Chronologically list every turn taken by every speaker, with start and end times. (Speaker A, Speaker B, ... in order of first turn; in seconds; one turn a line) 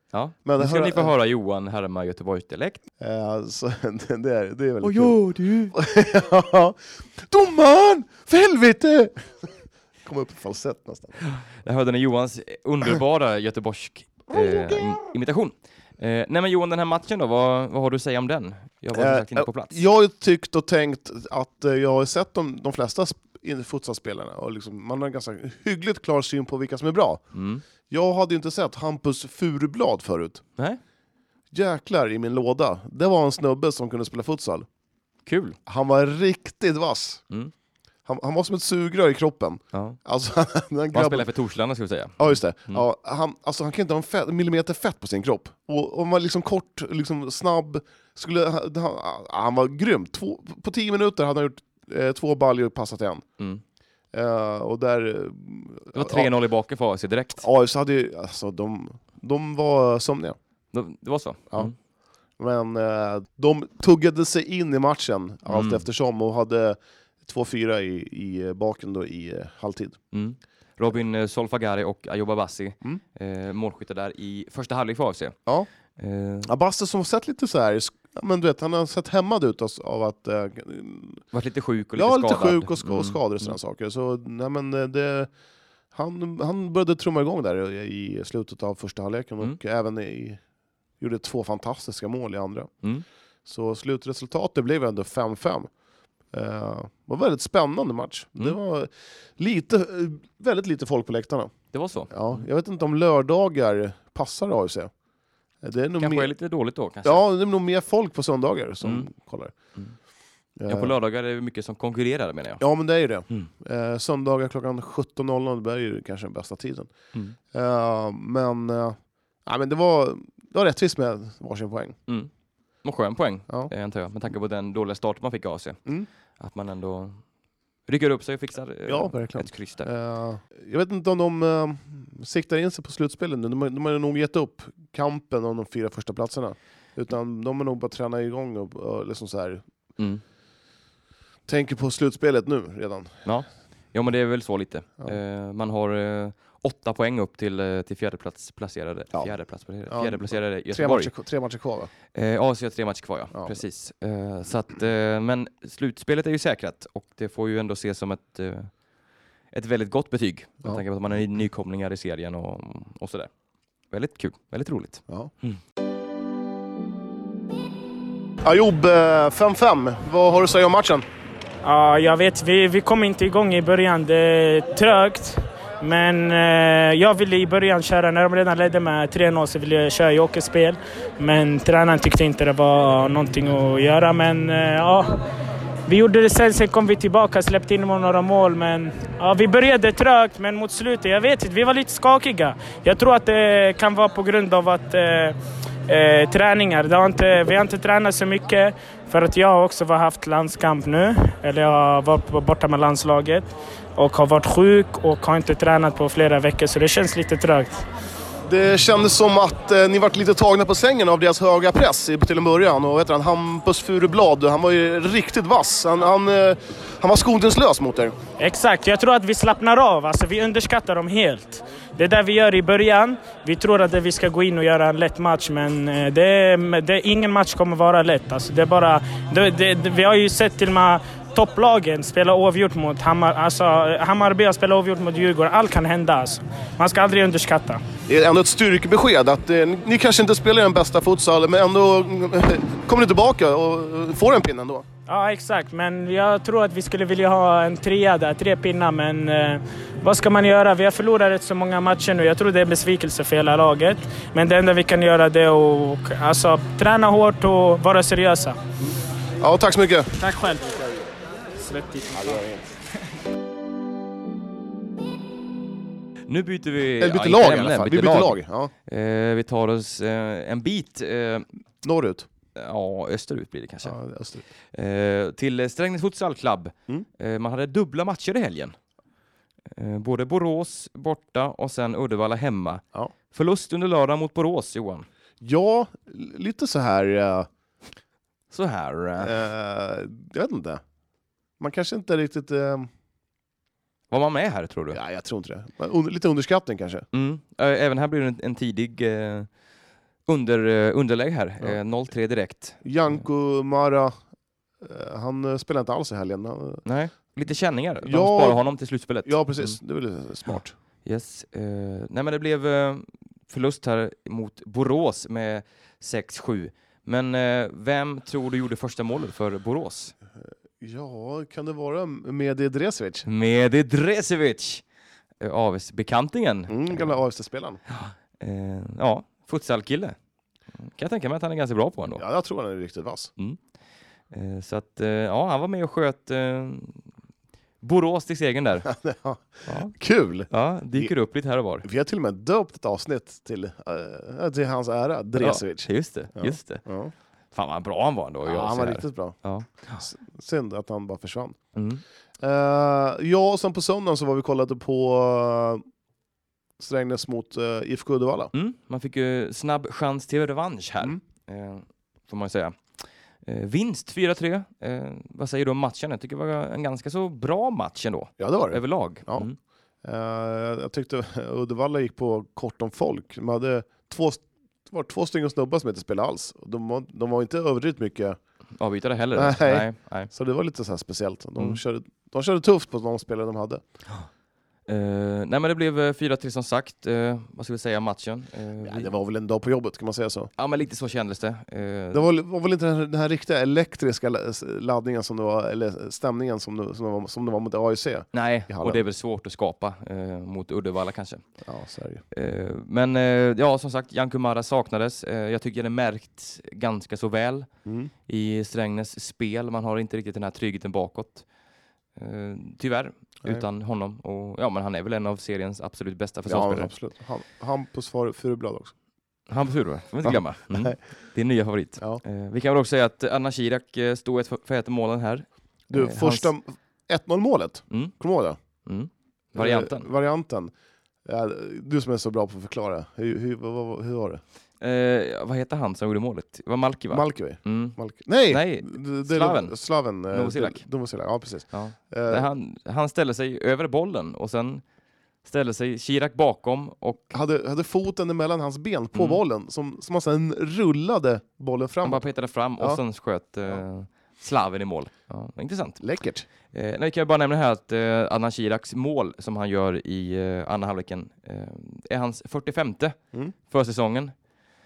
Speaker A: 0.1-2.8
Speaker B: 0.4-1.1
Speaker B: 3.0-11.2
Speaker A: 4.8-5.7
Speaker A: 11.2-19.8
Speaker B: 14.3-15.0
Speaker B: 18.9-27.2
Speaker A: 27.3-27.6
Speaker B: 27.9-30.4
Speaker B: 31.5-34.7
Speaker A: 35.2-35.6
Speaker B: 35.6-37.2
Speaker B: 38.0-41.3
Speaker A: 39.7-40.0
Speaker A: 40.9-42.8
Speaker B: 42.2-53.2
Speaker B: 54.1-56.3
Speaker A: 55.9-57.4
Speaker B: 57.4-60.4
Speaker A: 60.7-61.7
Speaker B: 62.4-70.0
Speaker A: 65.5-65.8
Speaker A: 70.1-75.4
Speaker A: 76.0-76.5
Speaker B: 76.4-81.2
Speaker A: 81.3-83.5
Speaker B: 82.0-85.3
Speaker B: 85.9-90.4
Speaker B: 91.0-92.7
Speaker B: 93.5-95.7
Speaker B: 96.3-101.5
Speaker A: 101.7-102.4
Speaker B: 102.1-104.9
Speaker B: 105.6-106.3
Speaker A: 106.0-107.2
Speaker B: 107.0-109.5
Speaker A: 108.8-109.1
Speaker B: 110.5-110.9
Speaker A: 110.7-112.6
Speaker B: 112.6-116.9
Speaker B: 117.5-122.0
Speaker A: 122.8-125.8
Speaker A: 126.4-127.2
Speaker A: 127.9-129.9
Speaker B: 128.9-139.6
Speaker A: 140.0-140.2
Speaker B: 141.5-143.2
Speaker A: 143.2-151.1
Speaker B: 149.9-151.9
Speaker A: 152.1-158.7
Speaker B: 153.3-153.6
Speaker A: 159.5-163.3
Speaker A: 163.9-165.6
Speaker B: 168.4-171.0
Speaker C: 171.6-185.1
Speaker C: 185.9-195.4
Speaker C: 195.9-207.8
Speaker B: 208.4-218.1
Speaker C: 218.4-237.8
Speaker B: 238.1-244.8
Speaker C: 245.1-258.6
Speaker B: 258.8-260.1
Speaker C: 260.2-261.0
Speaker C: 261.6-262.4
Speaker B: 262.2-262.6
Speaker A: 266.3-271.4
Speaker B: 267.0-268.7
Speaker B: 271.8-272.3
Speaker A: 272.6-273.9
Speaker B: 273.8-274.4
Speaker A: 274.7-278.8
Speaker A: 279.7-285.1
Speaker B: 285.4-287.5
Speaker A: 288.5-289.4
Speaker B: 289.2-290.8
Speaker B: 291.6-292.9
Speaker A: 294.1-295.0
Speaker B: 294.9-297.1
Speaker A: 297.1-299.5
Speaker A: 300.2-303.2
Speaker B: 302.8-304.1
Speaker B: 304.8-306.8
Speaker A: 306.8-309.8
Speaker B: 308.0-308.6
Speaker B: 309.2-310.7
Speaker A: 310.5-320.1
Speaker B: 320.4-323.2
Speaker A: 323.2-324.8
Speaker A: 325.4-327.2
Speaker B: 326.7-327.8
Speaker A: 327.9-330.1
Speaker A: 330.8-332.2
Speaker B: 332.1-333.3
Speaker A: 334.3-337.0
Speaker A: 337.8-338.9
Speaker B: 338.8-341.1
Speaker A: 339.6-339.9
Speaker A: 340.5-341.9
Speaker B: 341.8-347.1
Speaker A: 345.4-346.8
Speaker A: 347.5-350.1
Speaker B: 348.4-349.4
Speaker B: 350.0-351.6
Speaker A: 351.7-352.0
Speaker B: 352.4-355.8
Speaker B: 356.8-358.5
Speaker A: 358.5-362.8
Speaker A: 363.4-369.6
Speaker B: 368.4-369.5
Speaker B: 370.0-378.4
Speaker A: 378.8-380.3
Speaker B: 379.3-383.8
Speaker A: 384.9-389.1
Speaker B: 388.8-390.5
Speaker A: 390.6-392.3
Speaker B: 392.1-399.0
Speaker A: 398.3-401.4
Speaker B: 401.6-402.2
Speaker A: 402.3-407.7
Speaker B: 407.8-408.1
Speaker A: 408.3-411.4
Speaker A: 412.1-416.9
Speaker B: 416.4-418.9
Speaker A: 419.5-426.5
Speaker B: 420.2-421.0
Speaker B: 425.9-428.6
Speaker A: 428.8-430.1
Speaker B: 429.6-430.7
Speaker B: 431.2-434.4
Speaker A: 434.8-438.0
Speaker B: 437.1-442.5
Speaker A: 438.5-439.8
Speaker A: 440.3-440.8
Speaker A: 441.7-444.8
Speaker A: 445.4-447.4
Speaker B: 447.3-452.2
Speaker A: 449.1-449.4
Speaker A: 452.0-456.0
Speaker B: 456.0-456.4
Speaker A: 456.7-464.3